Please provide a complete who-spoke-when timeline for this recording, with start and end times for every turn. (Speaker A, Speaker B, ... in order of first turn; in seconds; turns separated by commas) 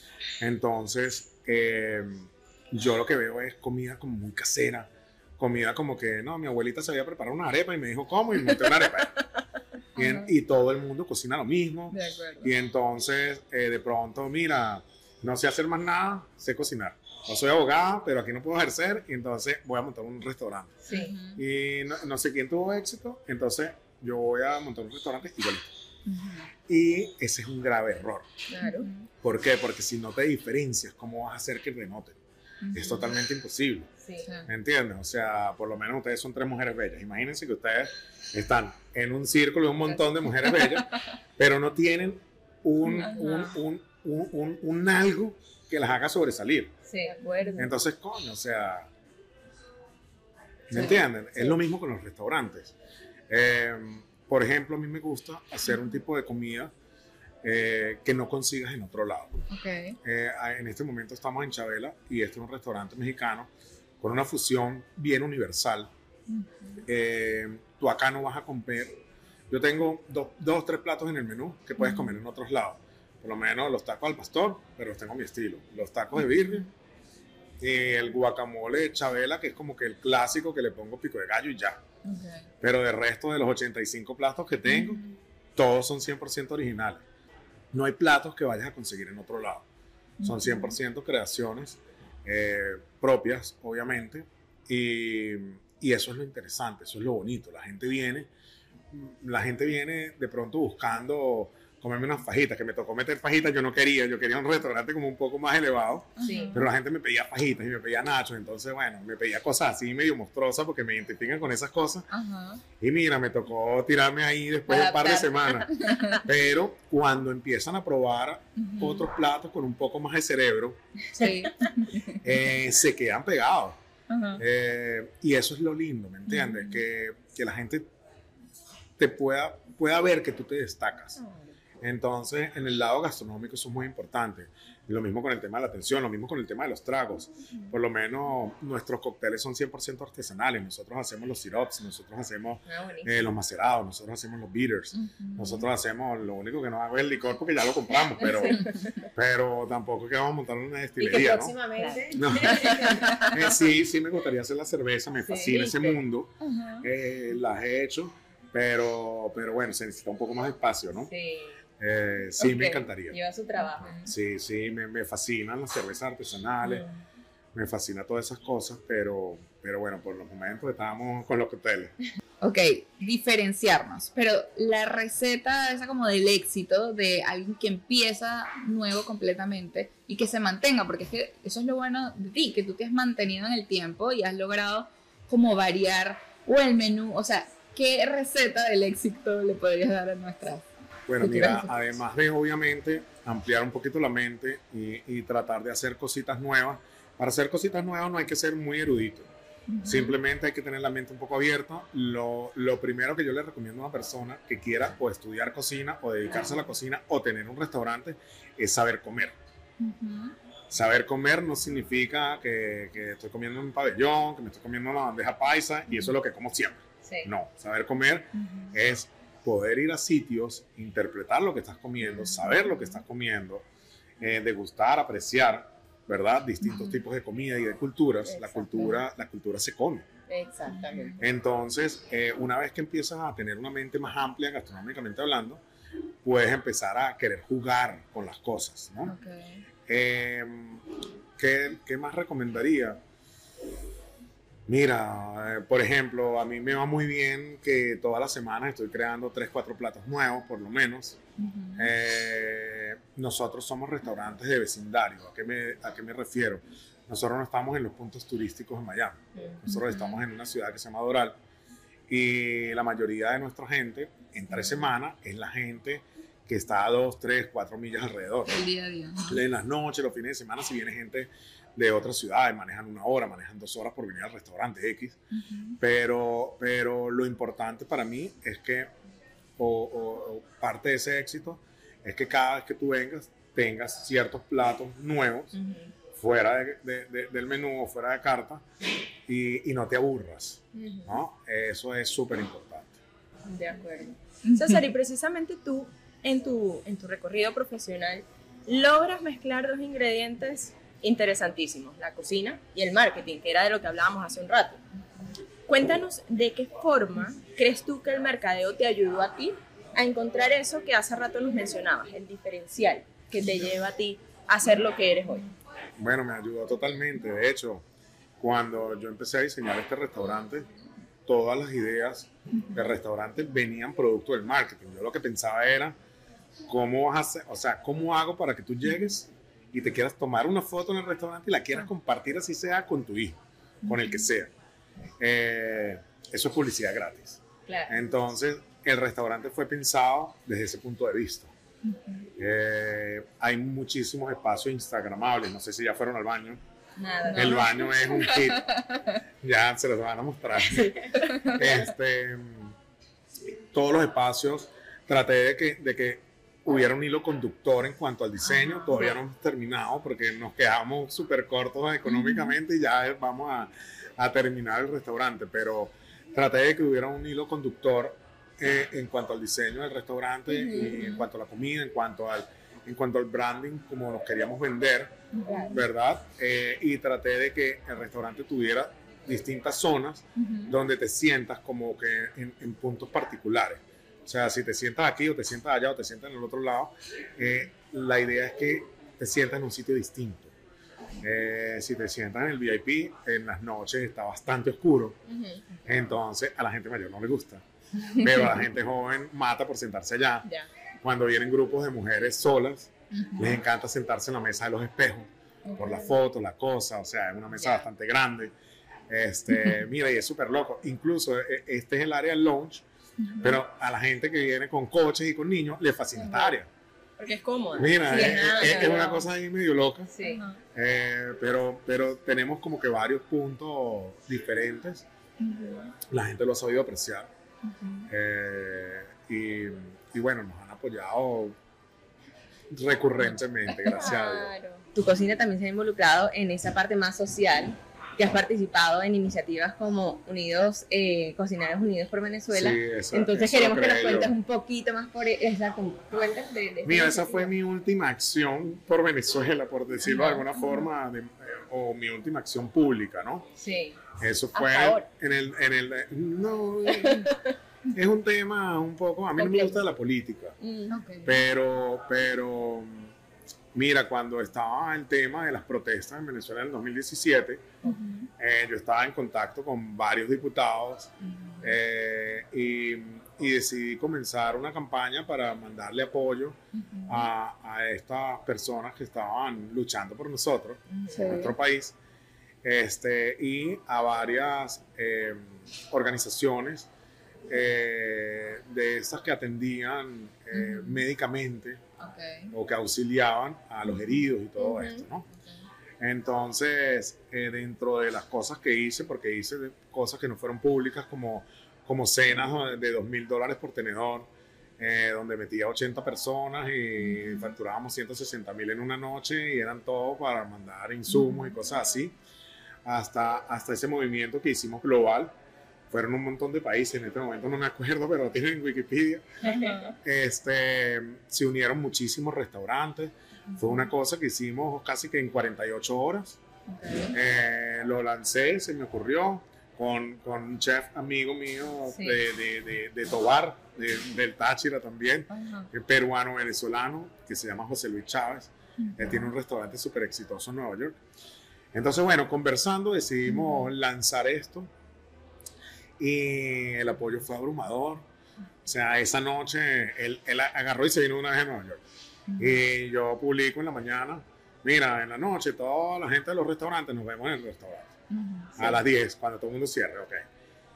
Speaker A: 0.4-9.2, Speaker A: 10.0-25.8, Speaker B: 10.0-10.3, Speaker B: 11.9-12.5, Speaker C: 20.9-21.1, Speaker B: 20.9-21.4, Speaker B: 26.1-26.5, Speaker A: 26.7-28.3, Speaker C: 28.6-28.9, Speaker D: 28.6-28.9, Speaker B: 28.6-29.1, Speaker A: 29.2-32.2, Speaker B: 32.6-33.1, Speaker A: 32.7-33.9, Speaker A: 34.4-46.8, Speaker B: 42.9-43.5, Speaker C: 46.9-47.2, Speaker B: 47.2-47.7, Speaker A: 47.6-48.9, Speaker A: 50.7-52.7, Speaker B: 50.7-51.0, Speaker A: 53.3-56.7, Speaker A: 57.4-59.4, Speaker B: 59.5-60.0, Speaker A: 60.0-63.5, Speaker A: 64.0-65.9, Speaker B: 66.3-66.8, Speaker A: 66.9-76.7, Speaker B: 71.8-72.1, Speaker A: 77.6-81.8, Speaker B: 82.0-82.5, Speaker A: 82.6-85.0, Speaker B: 84.7-85.1, Speaker A: 85.6-87.1, Speaker A: 87.7-89.7, Speaker B: 90.2-90.8, Speaker A: 90.2-98.3, Speaker A: 98.9-112.1, Speaker B: 106.2-106.7, Speaker C: 106.2-106.6, Speaker B: 112.1-112.6, Speaker A: 112.8-120.8, Speaker C: 114.7-116.2, Speaker B: 115.8-116.2, Speaker B: 118.6-119.0, Speaker B: 121.1-122.2, Speaker C: 121.2-121.5, Speaker A: 122.2-123.8, Speaker B: 124.1-124.4, Speaker A: 124.4-127.8, Speaker B: 126.3-126.8, Speaker A: 129.0-131.2, Speaker A: 131.8-151.6, Speaker C: 142.7-143.3, Speaker B: 144.9-145.7, Speaker C: 148.2-149.1, Speaker C: 151.0-153.7, Speaker A: 152.1-161.1, Speaker B: 152.5-153.2, Speaker C: 155.2-156.0, Speaker B: 156.4-156.9, Speaker C: 161.1-161.6, Speaker A: 161.8-163.2, Speaker C: 162.4-164.0, Speaker B: 163.6-164.1, Speaker A: 164.0-166.8, Speaker C: 166.6-166.9, Speaker A: 167.5-171.9, Speaker B: 172.4-190.7, Speaker A: 191.1-199.3, Speaker B: 191.2-191.7, Speaker B: 199.7-200.1, Speaker A: 199.8-209.3, Speaker B: 209.8-210.3, Speaker A: 210.7-223.7, Speaker C: 217.1-217.3, Speaker B: 218.4-218.7, Speaker B: 222.3-222.9, Speaker A: 224.2-230.1, Speaker C: 228.3-229.0, Speaker C: 230.3-231.2, Speaker B: 230.7-231.2, Speaker A: 231.2-235.6, Speaker A: 236.2-239.2, Speaker B: 239.1-239.6, Speaker A: 239.9-243.0, Speaker A: 244.7-251.2, Speaker B: 251.4-251.9, Speaker A: 251.8-261.4, Speaker B: 259.7-260.1, Speaker A: 262.1-268.6, Speaker B: 268.5-269.4, Speaker A: 269.3-275.2, Speaker B: 275.3-275.8, Speaker A: 275.8-278.9, Speaker A: 279.6-285.6, Speaker A: 286.2-288.6, Speaker A: 289.3-293.0, Speaker D: 290.7-291.1, Speaker D: 293.5-304.8, Speaker D: 305.7-315.5, Speaker A: 316.0-317.9, Speaker A: 318.4-320.7, Speaker A: 321.3-326.0, Speaker A: 326.7-334.5, Speaker B: 333.9-334.2, Speaker A: 335.2-341.5, Speaker C: 337.7-338.0, Speaker B: 341.9-342.2, Speaker A: 342.4-346.6, Speaker C: 347.0-347.9, Speaker B: 347.3-349.1, Speaker A: 347.3-348.7, Speaker A: 349.4-352.8, Speaker A: 353.7-375.1, Speaker B: 362.1-362.5, Speaker B: 370.9-371.3, Speaker B: 375.3-375.8, Speaker A: 375.7-390.5, Speaker B: 380.4-380.7, Speaker A: 391.2-395.2, Speaker D: 395.3-395.6, Speaker A: 395.8-397.6, Speaker A: 398.1-400.5, Speaker A: 401.0-408.5, Speaker B: 403.1-403.6, Speaker B: 405.7-406.0, Speaker A: 409.1-412.8, Speaker B: 413.2-413.6, Speaker A: 413.4-416.7, Speaker D: 417.2-419.2, Speaker A: 417.8-420.1, Speaker C: 418.2-419.1, Speaker B: 420.2-420.6, Speaker A: 420.7-425.1, Speaker B: 425.4-425.9, Speaker A: 426.1-427.3, Speaker B: 427.7-428.1, Speaker A: 428.1-431.6, Speaker A: 432.7-434.5, Speaker D: 433.9-434.9, Speaker C: 434.9-447.5, Speaker A: 442.5-444.3, Speaker A: 446.8-453.5, Speaker C: 453.6-454.0, Speaker A: 454.1-457.4, Speaker D: 454.5-455.0, Speaker A: 457.9-460.6, Speaker D: 459.4-459.7, Speaker D: 460.6-460.9, Speaker B: 460.9-461.4, Speaker A: 461.2-463.1, Speaker A: 463.7-467.8, Speaker B: 467.8-468.3, Speaker A: 468.4-481.9, Speaker B: 471.2-471.8, Speaker B: 476.8-477.3, Speaker C: 481.1-481.3, Speaker B: 481.1-481.6, Speaker A: 482.6-486.9, Speaker A: 487.5-491.8, Speaker B: 490.5-491.0, Speaker B: 492.0-492.5, Speaker A: 492.5-495.3, Speaker D: 494.6-495.0, Speaker B: 495.3-495.6, Speaker A: 496.0-512.2, Speaker B: 511.1-511.5, Speaker A: 512.9-515.3, Speaker A: 515.9-526.4, Speaker B: 519.4-519.9, Speaker B: 526.7-527.1, Speaker A: 527.1-541.0, Speaker B: 535.3-535.7, Speaker B: 538.8-539.2, Speaker A: 541.7-544.7, Speaker B: 543.3-543.7, Speaker A: 546.0-548.0, Speaker A: 548.6-551.8, Speaker B: 552.3-552.6, Speaker A: 552.4-557.9, Speaker B: 558.1-558.8, Speaker A: 558.6-560.2